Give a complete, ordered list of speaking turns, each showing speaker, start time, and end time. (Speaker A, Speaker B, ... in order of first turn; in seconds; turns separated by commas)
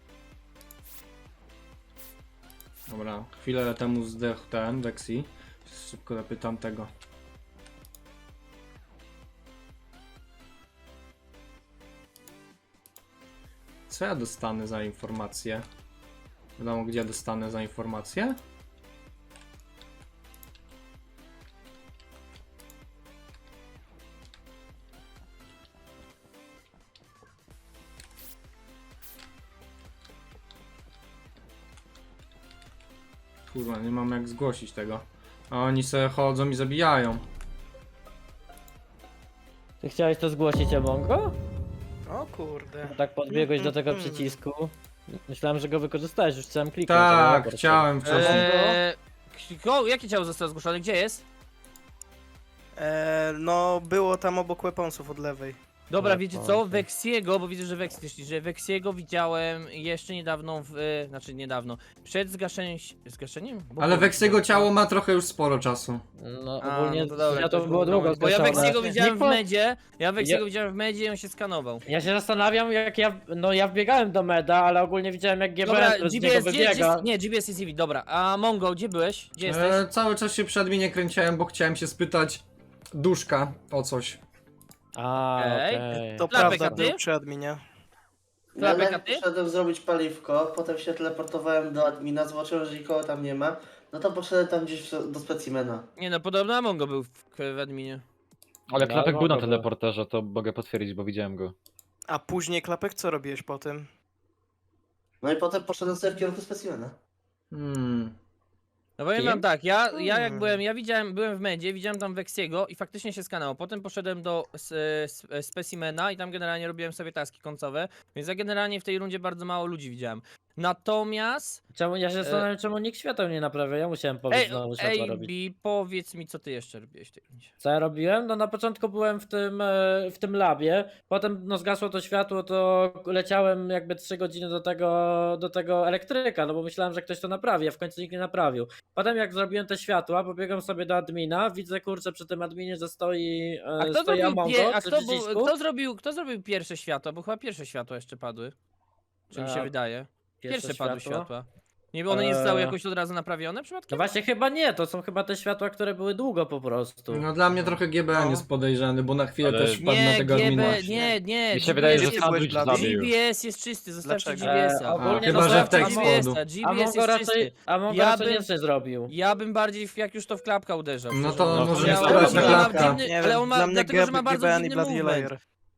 Speaker A: 2.9-6.9, Speaker A: 13.9-15.6, Speaker A: 16.6-18.4, Speaker A: 33.5-37.2, Speaker B: 39.8-41.3, Speaker C: 42.1-44.4, Speaker B: 42.9-48.5, Speaker A: 46.9-48.8, Speaker D: 48.0-51.2, Speaker C: 52.8-55.6, Speaker D: 55.9-64.7, Speaker B: 56.0-56.8, Speaker A: 63.8-66.0, Speaker B: 66.2-69.4, Speaker D: 66.6-71.8, Speaker C: 68.3-68.8, Speaker B: 71.9-77.0, Speaker D: 75.6-79.8, Speaker A: 79.4-84.2, Speaker B: 85.0-86.8, Speaker D: 85.4-87.0, Speaker C: 86.0-87.6, Speaker E: 88.5-95.8, Speaker D: 88.6-89.2, Speaker D: 96.0-98.0, Speaker F: 98.7-101.5, Speaker B: 98.8-99.7, Speaker C: 102.1-103.9, Speaker E: 105.2-107.0, Speaker A: 107.5-108.2, Speaker D: 109.0-121.6, Speaker C: 109.9-110.6, Speaker B: 121.7-125.3, Speaker D: 122.2-122.5, Speaker D: 124.3-127.5, Speaker B: 127.6-145.5, Speaker D: 143.8-148.5, Speaker D: 149.3-154.1, Speaker B: 149.3-149.7, Speaker B: 150.4-151.3, Speaker B: 152.1-152.7, Speaker B: 153.9-157.3, Speaker A: 157.1-161.2, Speaker F: 159.4-159.8, Speaker D: 159.8-168.5, Speaker F: 161.5-163.1, Speaker C: 161.7-162.9, Speaker C: 164.0-164.5, Speaker B: 164.4-169.1, Speaker A: 165.0-166.4, Speaker D: 169.1-175.3, Speaker A: 171.1-173.0, Speaker F: 171.5-172.7, Speaker E: 171.9-173.0, Speaker C: 172.7-175.4